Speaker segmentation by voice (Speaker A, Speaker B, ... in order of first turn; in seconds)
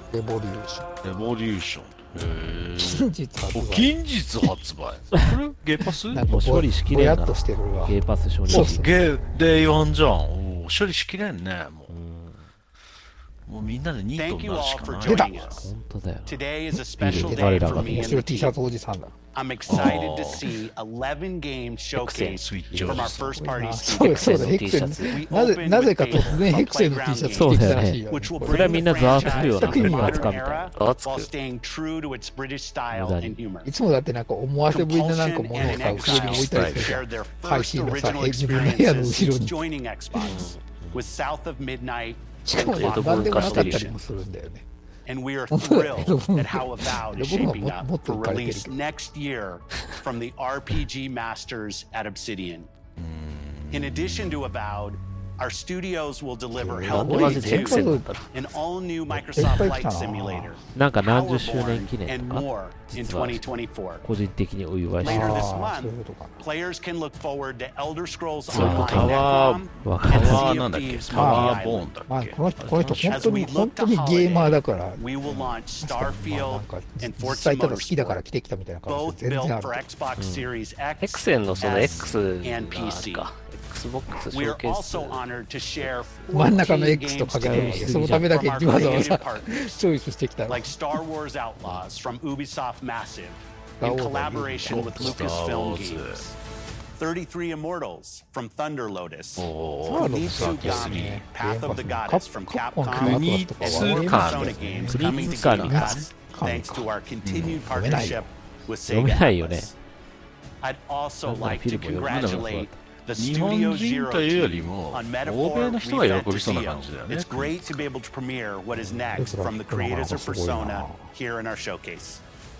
Speaker A: 0.1-0.9, 2.8-3.9, 6.1-8.0, 8.5-8.9, 15.0-15.4, 17.1-19.2, 22.7-30.3, 33.6-39.6, 42.4-44.6, 45.5-48.8, 56.5-58.1, 59.1-60.6, 65.0-66.4, 71.1-75.1, 75.8-79.9, 86.3-91.0, 93.8-95.1, 99.9-106.9, 107.7-108.3, 119.1-121.1
Speaker B: 1.0-6.3, 8.5-11.9, 13.5-15.6, 19.7-20.6, 22.0-23.4, 34.8-36.9, 53.0-54.4, 68.5-73.3, 81.5-82.2, 94.6-96.2, 99.4-101.2, 102.9-106.0, 107.2-107.6, 112.0-112.5, 113.2-117.9
Speaker C: 6.3-8.8, 11.9-12.5, 15.5-16.4, 17.0-18.2, 27.3-30.7, 32.9-33.4, 40.2-41.0, 60.7-63.4, 64.0-65.4, 68.5-69.2, 69.8-70.5, 80.2-80.5, 85.8-86.1, 87.4-88.3, 104.9-106.0, 108.9-109.7, 111.3-112.8
Speaker D: 14.1-15.7, 16.3-18.6, 19.3-33.7, 34.9-44.0, 45.1-52.7, 53.7-64.0, 65.0-72.0, 73.0-78.2, 78.9-83.3, 84.3-89.8, 90.5-96.4, 97.0-109.7, 110.6-122.2
Speaker E: 22.0-22.4, 24.0-25.3, 26.2-26.4, 30.7-31.3, 40.2-40.6, 42.6-43.9, 56.8-58.4, 81.0-85.3